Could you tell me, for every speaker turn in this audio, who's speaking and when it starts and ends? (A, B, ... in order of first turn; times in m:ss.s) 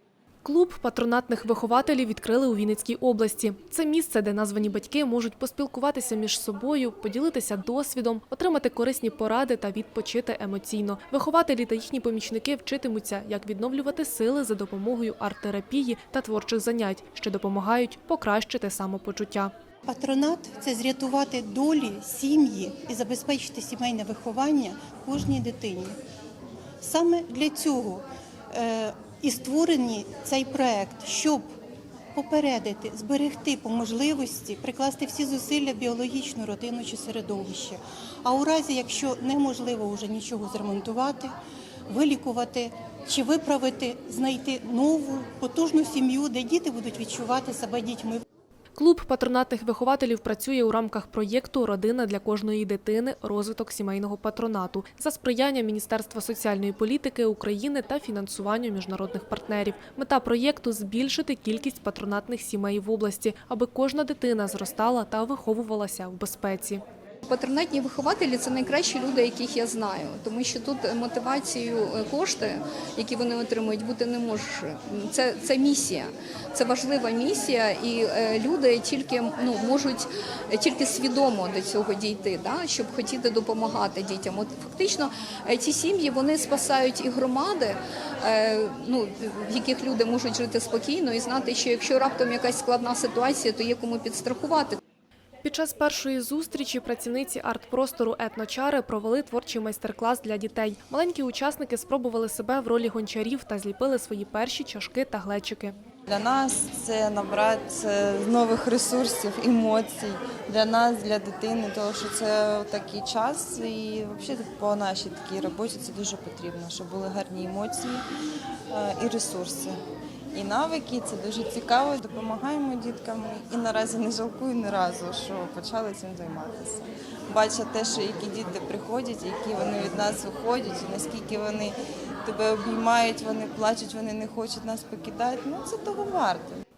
0:00.4-0:19.5 A
0:19.9-0:26.0 B
0:26.8-0:31.4 B
0:32.1-0:41.3 B
0:41.9-0:48.2 B
0:48.7-1:06.8 A
1:07.2-1:34.8 C
1:35.4-1:45.7 A
1:46.1-1:58.0 D
1:58.7-1:59.8 D
2:00.3-2:16.6 D